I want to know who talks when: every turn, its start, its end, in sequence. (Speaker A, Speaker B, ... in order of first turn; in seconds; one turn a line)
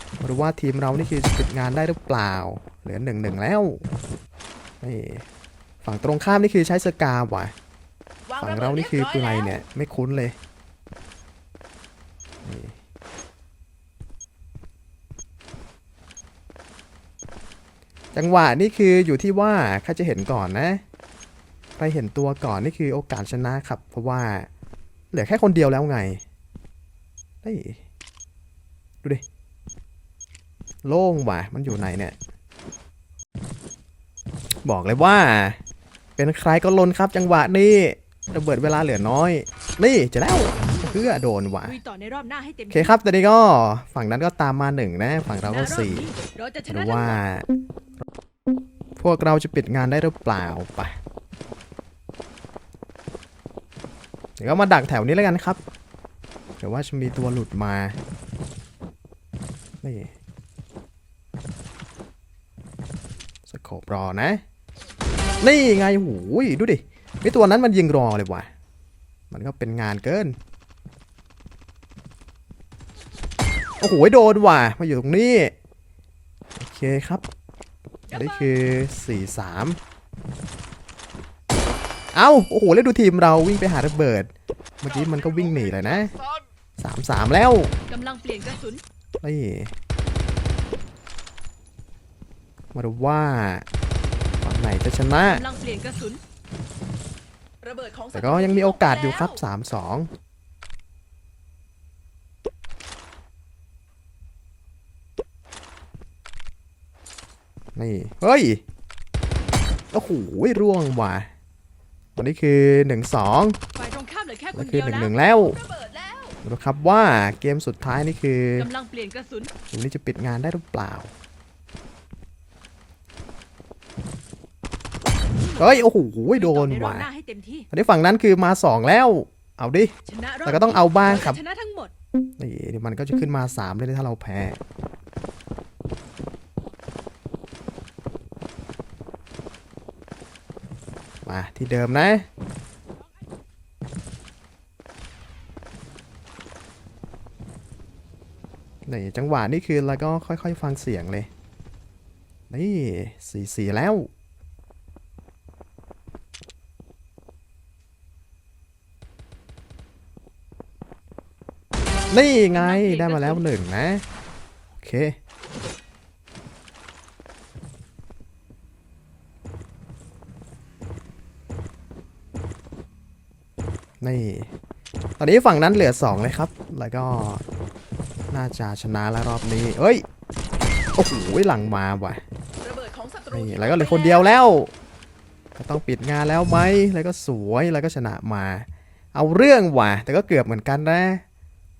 Speaker A: 0.2-3.8
Speaker A: 4.8-5.2
Speaker A: 5.8-7.5
Speaker B: 8.3-9.5
Speaker A: 8.4-10.3
Speaker A: 12.4-12.7
Speaker A: 18.1-20.8
Speaker A: 21.8-24.5
Speaker A: 25.1-26.2
Speaker A: 27.4-27.8
Speaker A: 30.8-32.1
Speaker A: 34.6-35.6
Speaker A: 36.2-41.8
Speaker C: 40.3-43.0
Speaker A: 42.7-46.1
Speaker C: 45.4-47.2
Speaker A: 46.7-47.5
Speaker A: 49.0-50.9
Speaker A: 54.4-55.6
Speaker A: 56.6-58.0
Speaker A: 59.8-60.1
Speaker A: 63.5-64.4
Speaker A: 65.4-68.5
Speaker A: 69.3-70.3
Speaker A: 73.8-75.5
Speaker A: 76.5-77.2
Speaker C: 78.1-78.5
Speaker A: 78.1-79.8
Speaker A: 82.1-86.1
Speaker A: 86.8-87.7
Speaker C: 87.9-88.8
Speaker A: 89.2-89.7
Speaker A: 92.7-93.6
Speaker A: 94.4-95.4
Speaker C: 95.2-96.2
Speaker C: 97.6-98.0
Speaker B: 97.6-99.3
Speaker A: 98.1-100.1
Speaker A: 107.8-108.6
Speaker A: 109.9-111.3
Speaker A: 112.2-113.6
Speaker C: 113.7-116.4
Speaker A: 114.5-115.6
Speaker A: 116.4-118.7
Speaker C: 118.6-119.5
Speaker A: 119.7-121.1
Speaker C: 125.4-125.8
Speaker A: 125.6-127.1
Speaker C: 126.3-127.7
Speaker A: 127.7-129.9
Speaker C: 130.1-131.9
Speaker A: 130.4-131.4
Speaker A: 132.4-134.6
Speaker A: 141.2-142.3
Speaker A: 148.9-151.3
Speaker A: 152.5-154.1
Speaker A: 162.1-164.0
Speaker C: 162.5-163.4
Speaker A: 164.7-165.2
Speaker A: 174.0-174.5
Speaker A: 175.2-177.4
Speaker A: 178.3-180.0
Speaker A: 180.9-182.2
Speaker C: 182.6-182.9
Speaker B: 182.6-184.4
Speaker A: 183.3-184.7
Speaker A: 185.6-191.2